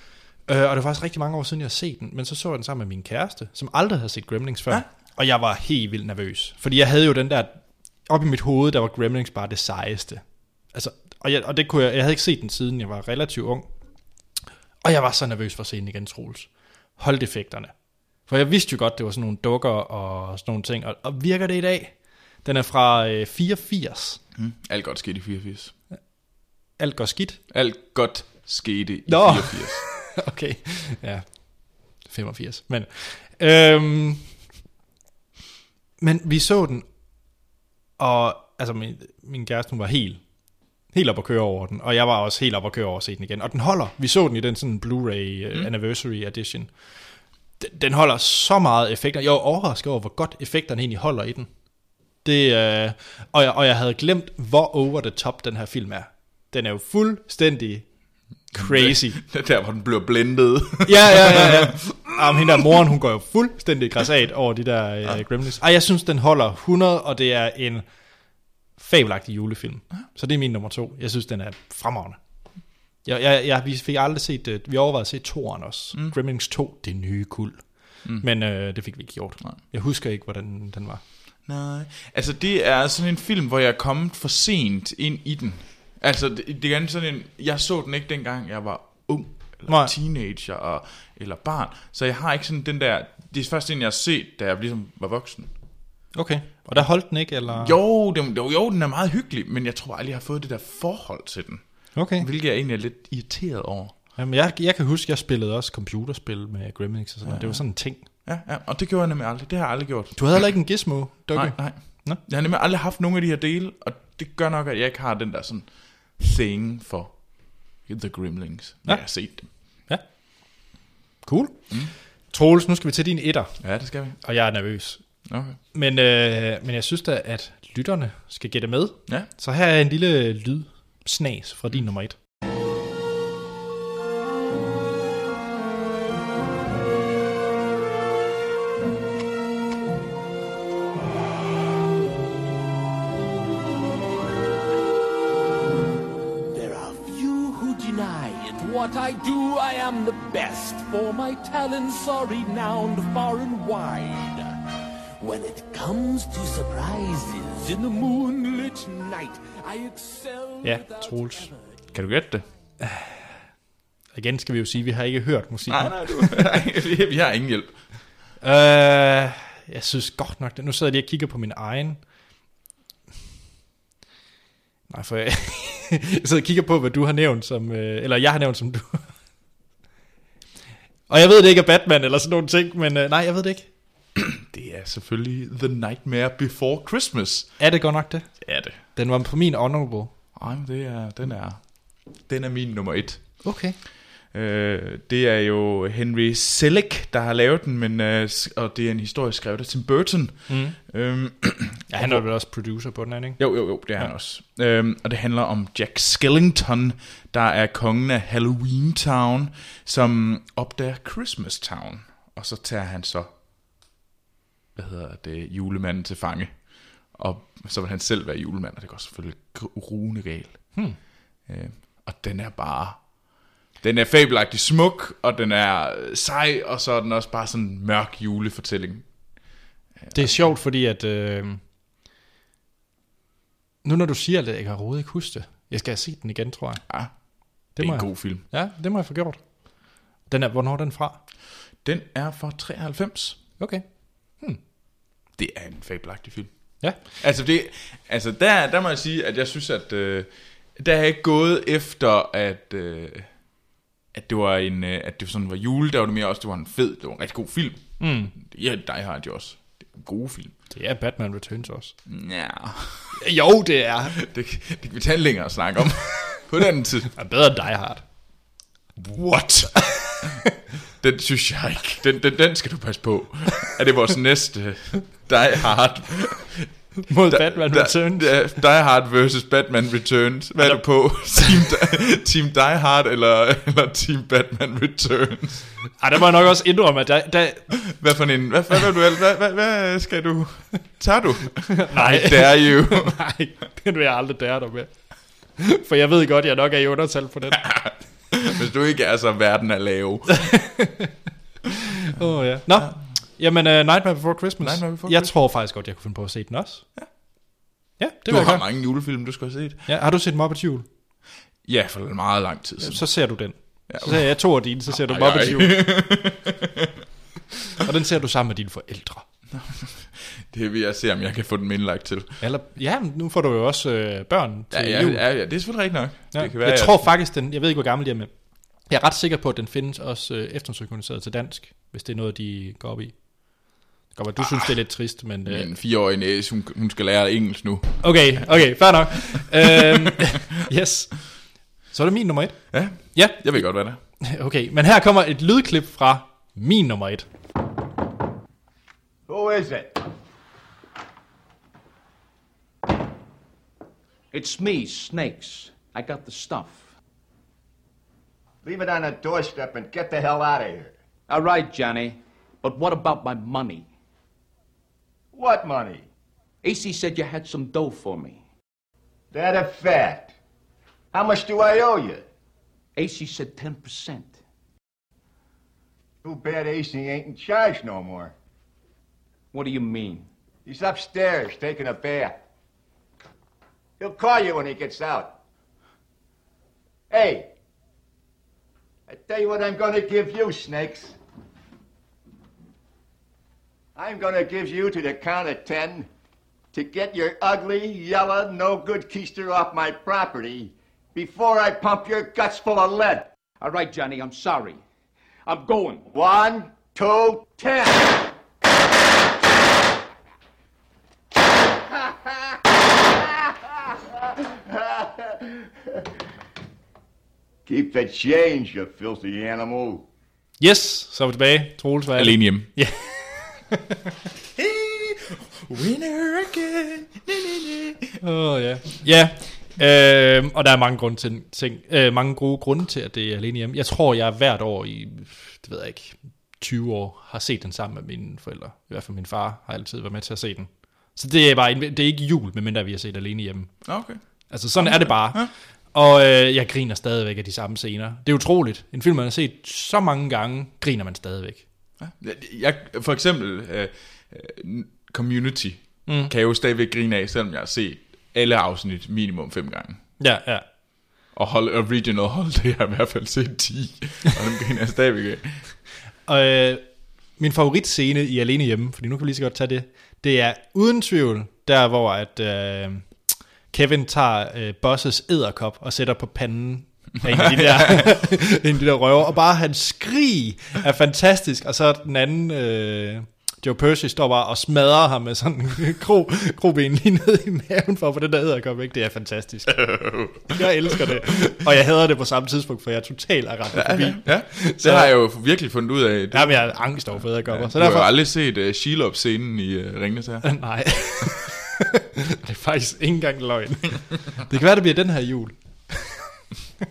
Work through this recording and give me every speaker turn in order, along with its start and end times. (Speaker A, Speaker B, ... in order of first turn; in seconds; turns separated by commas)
Speaker A: 0.5-13.7, Speaker A: 14.8-17.7, Speaker A: 18.2-24.2, Speaker B: 24.4-25.7, Speaker A: 26.8-27.4, Speaker B: 27.5-29.9, Speaker A: 29.1-34.3, Speaker A: 36.0-36.9, Speaker A: 38.0-40.2, Speaker A: 40.9-46.7, Speaker A: 47.6-51.5, Speaker A: 52.2-57.9, Speaker A: 58.5-59.2, Speaker B: 58.5-62.5, Speaker A: 60.8-67.8, Speaker A: 68.8-72.2, Speaker A: 73.0-81.0, Speaker B: 81.5-95.5, Speaker A: 89.7-89.9, Speaker A: 96.1-97.8, Speaker B: 97.5-104.0, Speaker A: 101.9-102.2, Speaker A: 104.2-108.0, Speaker B: 107.2-110.7, Speaker A: 110.2-112.2, Speaker B: 111.3-119.5, Speaker A: 118.8-120.0, Speaker A: 121.2-121.8, Speaker A: 122.3-123.6, Speaker B: 123.6-124.2, Speaker A: 124.2-125.0, Speaker B: 125.3-125.6, Speaker A: 125.7-132.2, Speaker C: 146.5-154.5, Speaker C: 155.2-161.6, Speaker A: 160.6-161.5, Speaker B: 161.9-162.4, Speaker A: 162.8-163.2, Speaker A: 164.1-166.6, Speaker B: 165.7-167.8, Speaker A: 168.4-172.0, Speaker A: 174.9-179.1, Speaker A: 181.1-183.7, Speaker B: 184.2-187.5, Speaker A: 187.6-190.1, Speaker B: 188.4-188.8, Speaker B: 190.3-193.4, Speaker A: 193.4-193.8, Speaker B: 194.3-202.2, Speaker A: 200.5-200.8, Speaker A: 201.9-203.4, Speaker B: 203.4-213.3, Speaker B: 214.8-220.9, Speaker B: 221.4-229.3, Speaker B: 230.0-230.5, Speaker A: 230.1-231.6, Speaker A: 233.8-236.8, Speaker B: 236.9-237.1, Speaker B: 237.7-238.4, Speaker A: 237.7-239.4, Speaker A: 240.3-241.2, Speaker B: 241.8-243.4, Speaker A: 243.6-244.6, Speaker B: 245.4-253.3, Speaker B: 254.1-260.5, Speaker A: 258.0-258.3, Speaker A: 260.7-261.9, Speaker B: 262.1-263.2, Speaker A: 263.2-264.1, Speaker B: 264.1-267.1, Speaker A: 267.1-268.0, Speaker B: 269.0-270.4, Speaker A: 269.9-270.2, Speaker B: 271.0-276.7, Speaker A: 277.1-278.3, Speaker B: 277.3-285.7, Speaker A: 280.6-281.5, Speaker A: 286.0-287.8, Speaker B: 287.8-293.2, Speaker A: 291.8-294.9, Speaker A: 295.6-297.7, Speaker B: 297.5-300.6, Speaker A: 300.3-301.1, Speaker A: 302.0-306.8, Speaker B: 304.6-305.3, Speaker A: 308.0-308.6, Speaker B: 308.3-309.8, Speaker A: 309.9-310.9, Speaker B: 311.6-313.0, Speaker A: 312.8-315.9, Speaker B: 313.9-314.3, Speaker B: 314.9-317.0, Speaker A: 317.8-319.2, Speaker B: 319.5-322.4, Speaker A: 322.4-325.2, Speaker B: 324.7-327.1, Speaker A: 326.3-328.3, Speaker A: 328.8-335.7, Speaker B: 335.4-338.5, Speaker A: 338.0-341.3, Speaker B: 339.3-340.3, Speaker A: 341.9-343.6, Speaker B: 342.7-344.0, Speaker A: 344.2-347.2, Speaker D: 349.3-350.0, Speaker E: 354.3-356.9, Speaker D: 358.6-360.9, Speaker E: 361.3-363.9, Speaker D: 365.3-366.1, Speaker E: 366.6-368.4, Speaker D: 369.3-370.3, Speaker D: 371.1-372.2, Speaker E: 372.9-374.4, Speaker D: 376.2-378.3, Speaker E: 379.5-380.3, Speaker D: 380.6-382.4, Speaker D: 384.0-385.3, Speaker D: 387.1-387.5, Speaker D: 389.1-391.1, Speaker D: 393.9-396.1, Speaker D: 396.7-403.3, Speaker E: 403.6-404.8, Speaker E: 405.4-406.1, Speaker D: 406.1-408.2, Speaker D: 414.7-415.4, Speaker D: 417.6-420.1, Speaker A: 420.6-423.1, Speaker B: 422.1-422.7, Speaker A: 423.7-424.0, Speaker B: 424.6-428.1, Speaker A: 428.2-443.7, Speaker B: 443.8-444.2, Speaker A: 444.5-451.6, Speaker B: 444.8-445.5, Speaker B: 452.0-460.0, Speaker A: 456.1-456.3, Speaker A: 460.2-460.6, Speaker B: 461.3-465.6, Speaker A: 466.3-466.8, Speaker A: 467.4-473.1, Speaker A: 473.7-489.9, Speaker B: 477.3-478.1, Speaker B: 489.7-491.2, Speaker A: 490.4-495.1, Speaker B: 493.7-500.6, Speaker A: 496.3-498.1, Speaker A: 500.4-506.2